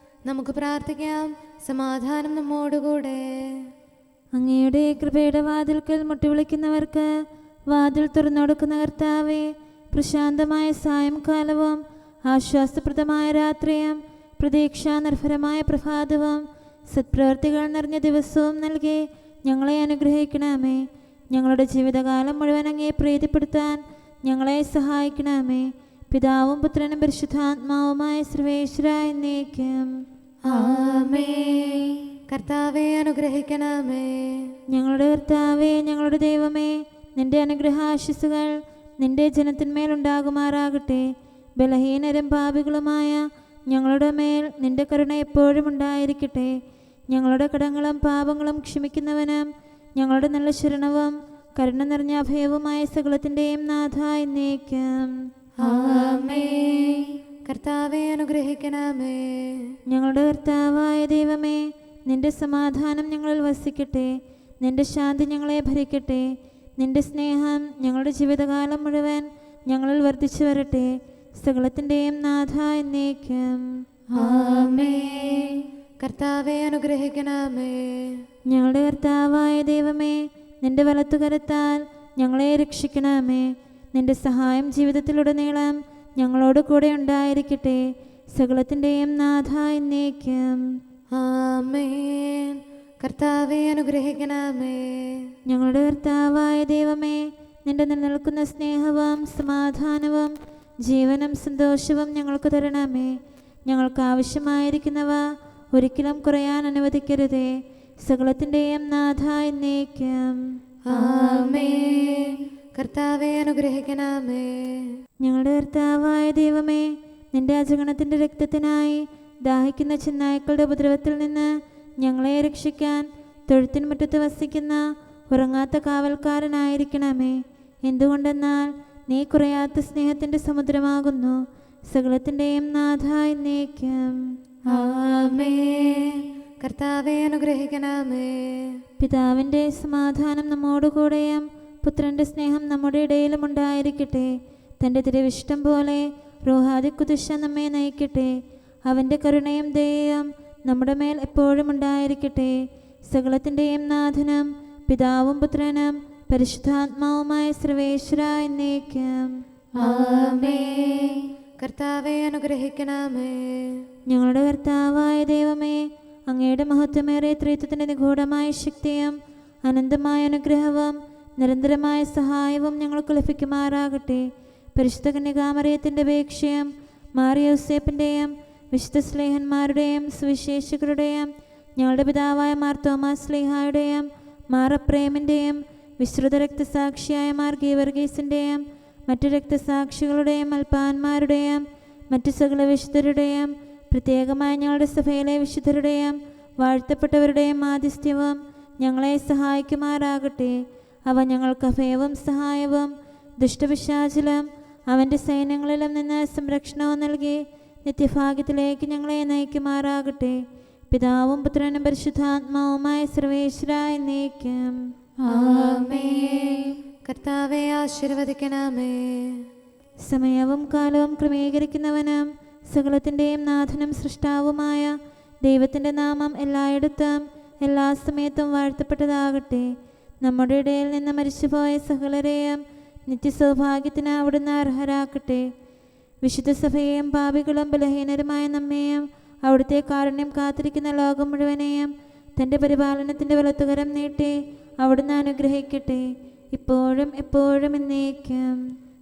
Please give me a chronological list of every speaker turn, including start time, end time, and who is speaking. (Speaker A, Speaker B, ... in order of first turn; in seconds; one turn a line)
Speaker A: 0.2-3.7
Speaker B: 4.3-7.1
Speaker B: 7.7-29.9
Speaker A: 30.4-34.5
Speaker B: 34.7-41.0
Speaker B: 41.6-46.5
Speaker B: 47.1-55.1
Speaker A: 55.6-59.8
Speaker B: 59.9-64.1
Speaker B: 64.6-66.2
Speaker B: 66.8-73.7
Speaker A: 74.1-78.2
Speaker B: 78.5-87.8
Speaker B: 88.3-90.6
Speaker A: 91.1-95.3
Speaker B: 95.5-103.1
Speaker B: 103.7-110.4
Speaker A: 110.9-115.0
Speaker B: 115.2-134.2
Speaker A: 134.7-138.8
Speaker B: 139.0-148.3
Speaker B: 148.8-152.6
Speaker B: 153.1-159.3
Speaker A: 159.8-163.8
Speaker B: 164.1-210.4
Speaker B: 210.9-214.8
Speaker A: 215.2-219.4
Speaker B: 220.0-229.7
Speaker B: 230.2-235.4
Speaker B: 236.2-248.6